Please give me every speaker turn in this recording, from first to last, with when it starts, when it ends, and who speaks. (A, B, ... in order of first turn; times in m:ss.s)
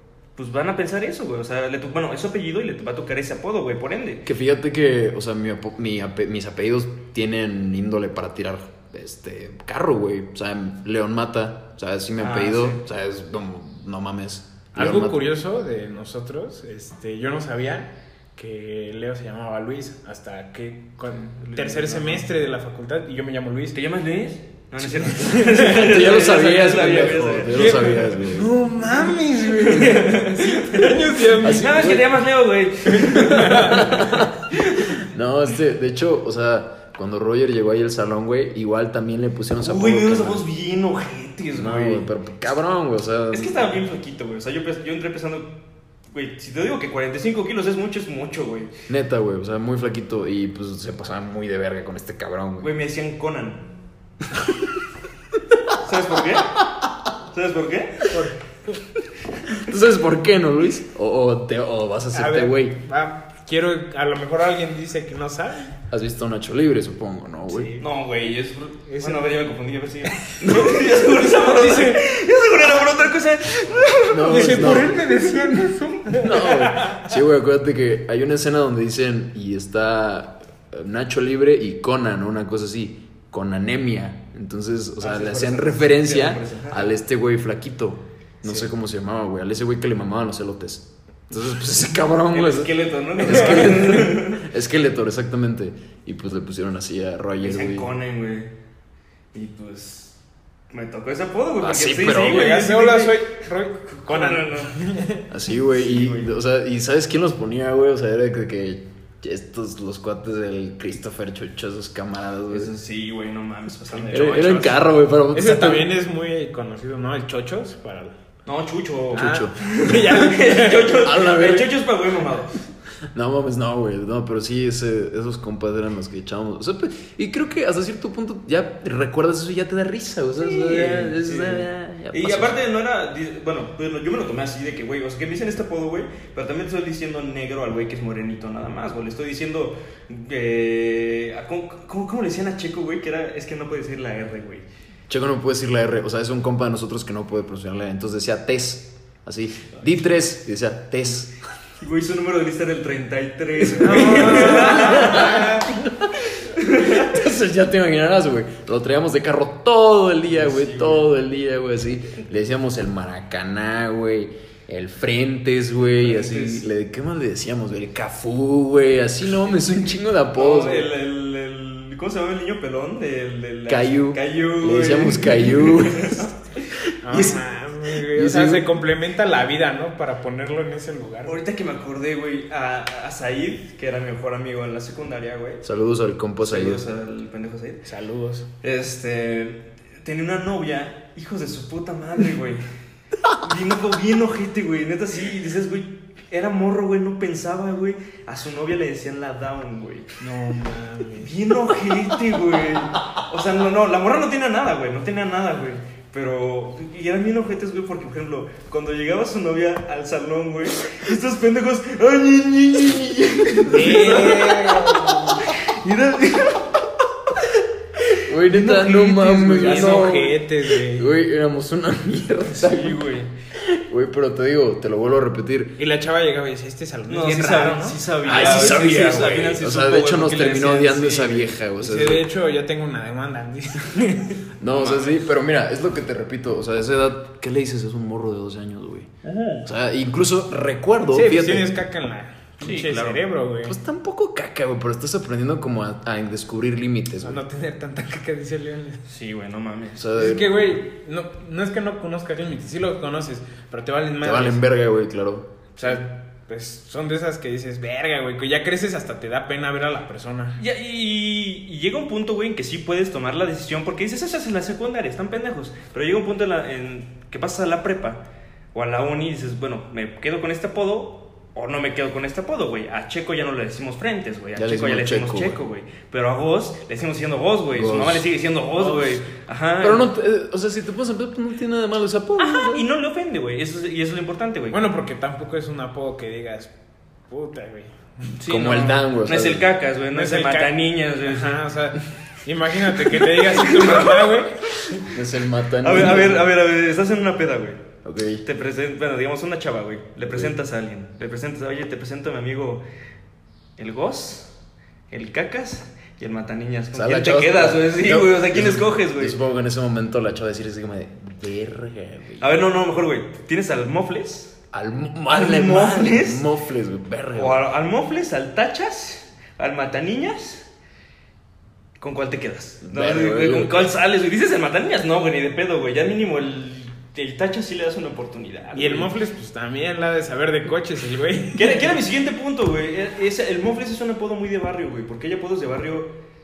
0:00.4-0:04.3 A
0:04.2-0:15.3 B
0:12.2-0:12.8 A
0:14.7-0:23.8 C
0:21.1-0:22.3 A
0:23.7-0:28.1 A
0:25.0-0:25.8 C
0:25.6-0:28.5 B
0:27.5-0:31.8 C
0:29.5-0:34.9 A
0:31.4-0:32.2 B
0:33.1-0:34.0 C
0:33.2-0:40.5 B
0:39.6-0:42.1 A
0:41.6-0:43.8 B
0:43.3-0:45.6 A
0:46.1-0:48.7 A
0:48.9-0:52.7 B
0:52.6-0:53.7 A
0:55.8-0:56.6 A
0:57.3-0:58.1 A
0:58.1-0:58.8 C
0:59.5-1:02.8 B
1:02.1-1:05.8 C
1:05.9-1:07.8 B
1:07.5-1:07.9 C
1:07.8-1:15.0 A
1:08.9-1:09.4 C
1:10.4-1:10.8 B
1:11.3-1:12.0 C
1:14.1-1:15.0 B
1:14.2-1:17.1 C
1:16.1-1:37.9 B
1:25.0-1:26.9 A
1:32.3-1:34.4 A
1:33.3-1:33.6 C
1:37.4-1:38.5 A
1:39.3-1:40.2 A
1:40.7-1:43.3 A
1:41.6-1:42.5 B
1:42.1-1:45.3 C
1:43.9-1:44.8 A
1:45.3-1:52.7 B
1:45.7-1:46.3 A
1:52.5-1:54.8 A
1:54.1-1:55.9 B
1:55.3-1:58.2 C
1:58.5-2:02.6 A
1:59.1-1:59.6 B
1:59.1-2:01.1 C
2:01.0-2:01.8 B
2:03.1-2:12.6 B
2:10.4-2:24.6 A
2:25.1-2:31.4 B
2:31.8-2:35.6 A
2:33.8-2:35.7 C
2:33.9-2:50.9 B
2:36.4-2:37.1 A
2:40.4-2:41.0 A
2:46.0-2:46.7 A
2:50.4-2:56.4 A
2:53.7-2:56.3 B
2:56.8-2:58.8 B
2:57.0-3:01.4 C
3:01.3-3:05.6 A
3:05.6-3:06.8 B
3:06.4-3:07.8 A
3:07.8-3:08.5 C
3:08.6-3:12.6 A
3:13.3-3:20.1 A
3:20.2-3:21.4 C
3:21.2-3:36.8 A
3:33.7-3:35.4 C
3:38.2-3:43.0 B
3:38.5-3:39.0 A
3:38.6-3:41.1 C
3:39.5-3:40.2 A
3:42.5-3:43.3 A
3:43.5-3:45.8 B
3:45.8-3:49.0 C
3:47.1-3:51.4 A
3:48.2-3:52.3 B
3:51.6-3:54.4 C
3:54.6-3:59.1 B
3:54.7-3:55.2 A
3:59.3-3:59.6 C
3:59.6-4:01.7 B
4:01.1-4:03.8 C
4:02.6-4:03.2 A
4:03.6-4:07.4 B
4:07.2-4:09.0 C
4:09.1-4:10.0 A
4:10.0-4:10.8 B
4:10.2-4:14.6 C
4:14.2-4:15.5 B
4:15.8-4:20.6 C
4:20.6-4:28.2 A
4:28.7-4:40.1 A
4:34.6-4:35.6 B
4:37.7-4:38.3 B
4:39.8-4:42.9 B
4:42.4-4:44.8 A
4:44.7-4:46.7 C
4:47.3-4:48.3 C
4:48.3-4:51.6 A
4:48.5-4:49.7 B
4:50.1-4:55.1 C
4:53.1-4:54.9 A
4:55.1-4:56.5 B
4:55.8-4:57.8 A
4:58.0-4:58.4 B
4:58.4-5:02.8 A
5:00.3-5:00.6 B
5:03.8-5:04.5 A
5:05.1-5:09.4 A
5:06.9-5:12.6 B
5:12.4-5:14.6 A
5:14.7-5:17.6 B
5:15.3-5:16.5 A
5:17.4-5:20.7 A
5:22.0-5:29.1 A
5:22.8-5:23.9 B
5:28.7-5:31.9 C
5:31.6-5:36.1 A